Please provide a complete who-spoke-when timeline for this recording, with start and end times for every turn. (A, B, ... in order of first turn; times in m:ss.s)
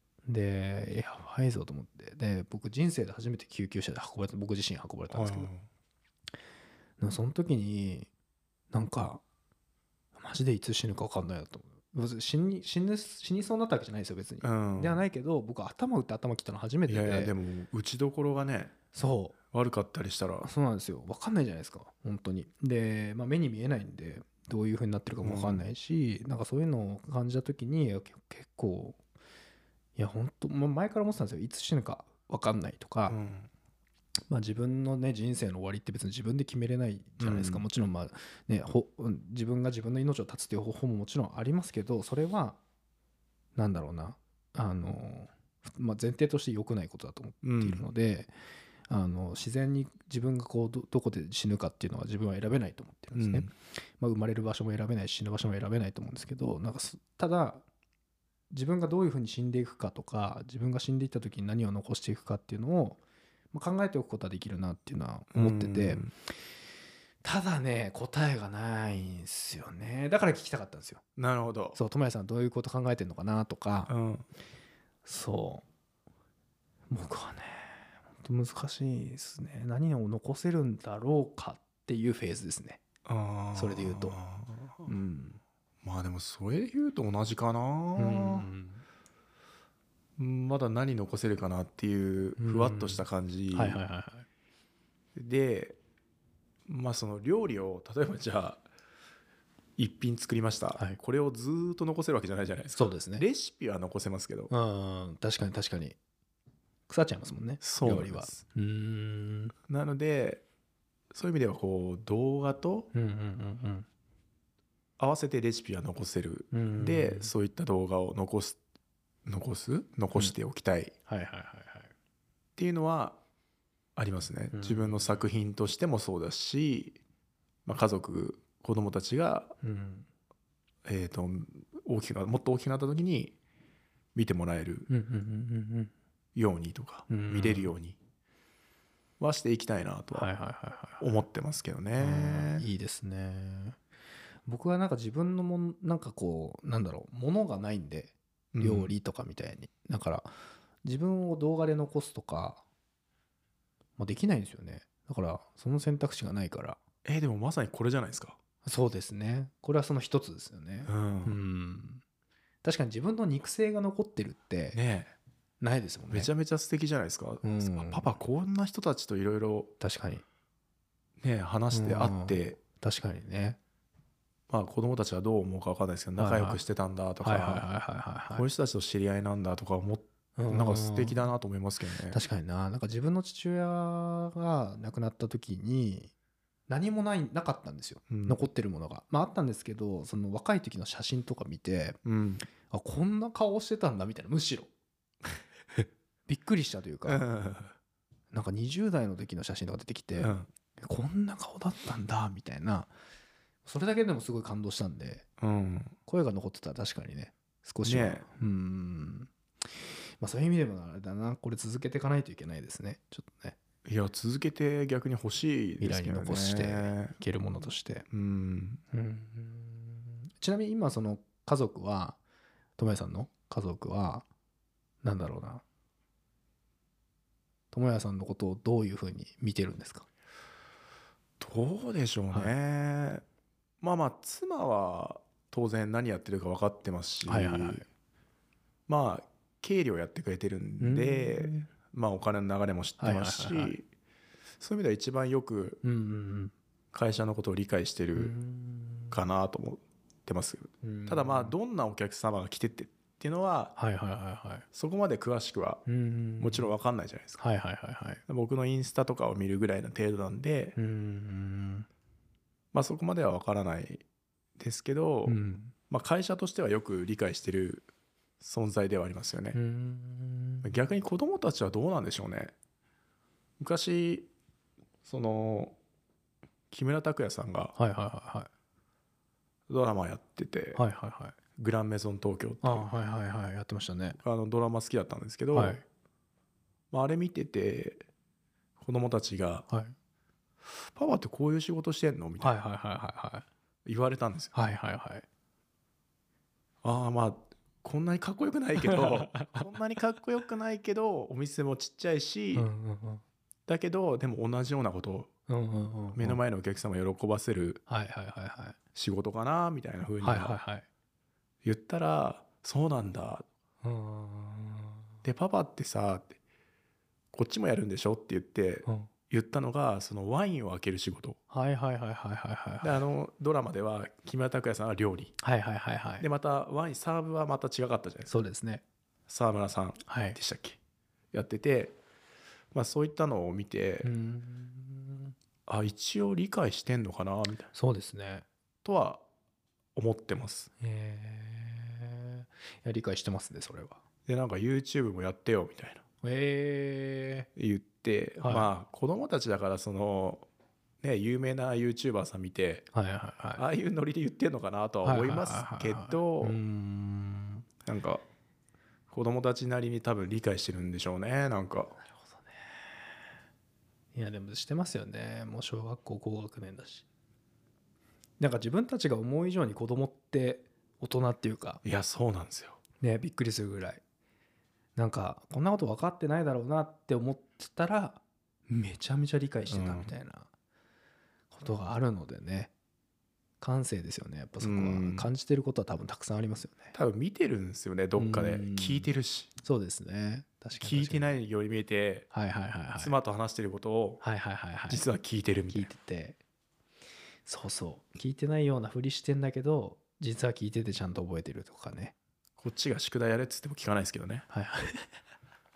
0:00.2-0:05.5 A
0:05.1-0:05.6 B
0:07.0-0:08.1 A
0:08.7-0:09.2 A
0:10.1-0:17.3 A
0:14.4-0:15.0 B
0:16.9-0:18.8 B
0:18.9-0:19.4 A
0:19.5-0:20.5 B
0:20.4-0:29.0 A
0:25.2-0:25.6 B
0:30.0-0:33.2 A
0:33.1-0:33.5 B
0:34.3-0:42.6 A
0:37.2-0:37.6 B
0:43.6-0:48.3 A
0:47.4-0:47.8 B
0:48.9-0:57.6 A
0:53.1-0:53.5 B
0:58.5-1:03.0 A
1:03.5-1:06.1 A
1:05.3-1:06.1 B
1:07.2-1:11.0 A
1:11.2-1:11.8 B
1:11.7-1:13.9 A
1:13.9-1:14.3 B
1:15.0-1:15.6 A
1:16.9-1:22.8 A
1:23.0-1:24.9 B
1:23.5-1:24.2 A
1:24.8-1:25.4 A
1:25.8-1:28.5 B
1:28.0-1:28.8 A
1:30.2-1:33.8 B
1:32.4-1:34.3 A
1:35.2-1:35.8 B
1:36.7-1:38.6 B
1:39.8-1:44.5 B
1:42.8-1:43.2 A
1:44.5-1:46.0 A
1:46.9-1:49.5 A
1:47.6-1:48.4 B
1:49.7-1:50.4 B
1:51.1-1:52.9 B
1:52.9-1:53.9 A
1:55.0-1:58.6 B
1:56.5-1:57.3 A
1:59.2-2:00.9 B
2:01.1-2:01.9 A
2:02.6-2:03.2 B
2:04.0-2:07.0 B
2:04.5-2:05.2 A
2:07.6-2:09.5 B
2:09.6-2:10.1 A
2:10.8-2:13.4 B
2:14.1-2:14.9 B
2:14.9-2:15.9 A
2:16.3-2:18.0 B
2:17.1-2:17.7 A
2:19.2-2:20.3 B
2:20.1-2:21.1 A
2:21.0-2:22.6 B
2:22.0-2:23.8 A
2:24.4-2:30.3 A
2:28.5-2:28.9 B
2:30.8-2:32.6 A
2:34.0-2:36.8 A
2:37.0-2:38.4 B
2:38.6-2:42.0 A
2:40.8-2:41.4 B
2:42.6-2:44.8 A
2:44.7-2:45.1 B
2:45.6-2:46.3 A
2:46.1-2:49.7 B
2:47.4-2:48.2 A
2:49.8-2:50.2 A
2:51.2-2:52.6 B
2:51.7-2:53.6 A
2:54.5-2:57.6 B
2:56.2-2:56.6 A
2:57.2-2:58.5 A
2:58.3-3:02.2 B
3:00.4-3:01.2 A
3:02.1-3:06.1 A
3:06.7-3:12.0 A
3:08.1-3:08.4 B
3:12.0-3:12.4 B
3:12.6-3:14.7 A
3:16.3-3:17.2 A
3:17.0-3:17.7 B
3:18.3-3:22.9 A
3:20.2-3:20.5 B
3:23.6-3:25.2 A
3:25.4-3:26.0 B
3:26.0-3:33.6 A
3:27.8-3:28.3 B
3:33.8-3:37.1 B
3:35.8-3:38.0 A
3:38.1-3:38.8 B
3:38.9-3:42.2 A
3:42.8-3:44.2 A
3:45.0-3:45.6 A
3:47.7-3:50.1 A
3:51.4-3:53.2 B
3:53.8-3:57.8 B
3:57.2-3:57.8 A
3:58.9-4:03.8 B
4:00.8-4:01.7 A
4:03.0-4:03.7 A
4:04.6-4:05.8 B
4:05.8-4:06.5 A
4:06.9-4:08.3 B
4:08.1-4:09.2 A
4:09.1-4:13.7 B
4:10.8-4:11.5 A
4:13.8-4:14.6 A
4:14.7-4:15.8 B
4:15.8-4:16.7 A
4:16.4-4:17.4 B
4:17.4-4:18.2 A
4:18.3-4:20.8 B
4:20.8-4:21.9 A
4:22.7-4:24.0 B
4:24.6-4:27.9 B
4:25.2-4:25.7 A
4:28.4-4:29.6 B
4:29.5-4:30.8 A
4:30.6-4:32.5 B
4:33.6-4:34.3 B
4:35.0-4:35.8 B
4:36.7-4:37.7 B
4:37.8-4:38.5 A
4:39.7-4:40.8 B
4:40.7-4:41.4 A
4:41.6-4:42.8 B
4:42.6-4:44.2 A
4:44.2-4:45.8 B
4:45.5-4:45.8 A
4:46.9-4:48.0 B
4:48.8-4:49.7 B
4:49.7-4:49.9 A
4:50.9-4:52.5 B
4:52.4-4:53.5 A
4:53.8-4:54.5 B
4:54.5-4:55.2 A
4:56.8-5:02.7 B
4:58.8-4:59.5 A
5:02.5-5:03.2 A
5:03.7-5:05.3 B
5:05.5-5:06.4 A
5:06.1-5:07.8 B
5:07.9-5:08.8 A
5:08.9-5:10.6 B
5:10.2-5:10.8 A
5:11.6-5:13.4 B
5:13.8-5:15.1 A
5:15.2-5:16.4 B
5:17.3-5:21.4 B
5:21.5-5:23.0 A
5:22.8-5:25.4 B
5:25.4-5:26.3 A
5:26.2-5:28.3 B
5:28.3-5:28.8 A
5:29.3-5:30.8 B
5:30.1-5:30.4 A
5:31.3-5:32.0 B
5:32.7-5:34.1 B
5:34.0-5:35.3 A
5:35.7-5:37.7 B
5:37.7-5:38.4 A
5:38.8-5:39.2 B
5:39.9-5:40.7 B
5:40.8-5:44.0 A
5:44.3-5:46.0 B
5:46.2-5:47.5 A
5:47.6-5:50.5 B
5:48.4-5:48.7 A
5:51.0-5:52.8 B
5:52.9-5:53.6 A
5:53.6-5:56.6 B
5:55.0-5:57.6 A
5:57.8-5:58.2 B
5:59.1-6:02.0 B
6:02.0-6:03.0 A
6:04.1-6:07.0 A
6:08.4-6:11.8 A
6:11.8-6:12.8 B
6:13.0-6:14.0 A
6:15.0-6:20.5 A
6:19.7-6:20.1 B
6:21.5-6:22.7 A
6:23.6-6:26.9 A
6:24.6-6:25.3 B
6:26.9-6:29.5 B
6:28.2-6:29.1 A
6:29.6-6:31.3 A
6:30.8-6:32.3 B
6:32.3-6:33.1 A
6:33.0-6:34.2 B
6:34.2-6:35.0 A
6:34.9-6:35.9 B
6:35.7-6:36.4 A
6:37.4-6:42.1 A
6:42.6-6:44.4 B
6:44.5-6:45.0 A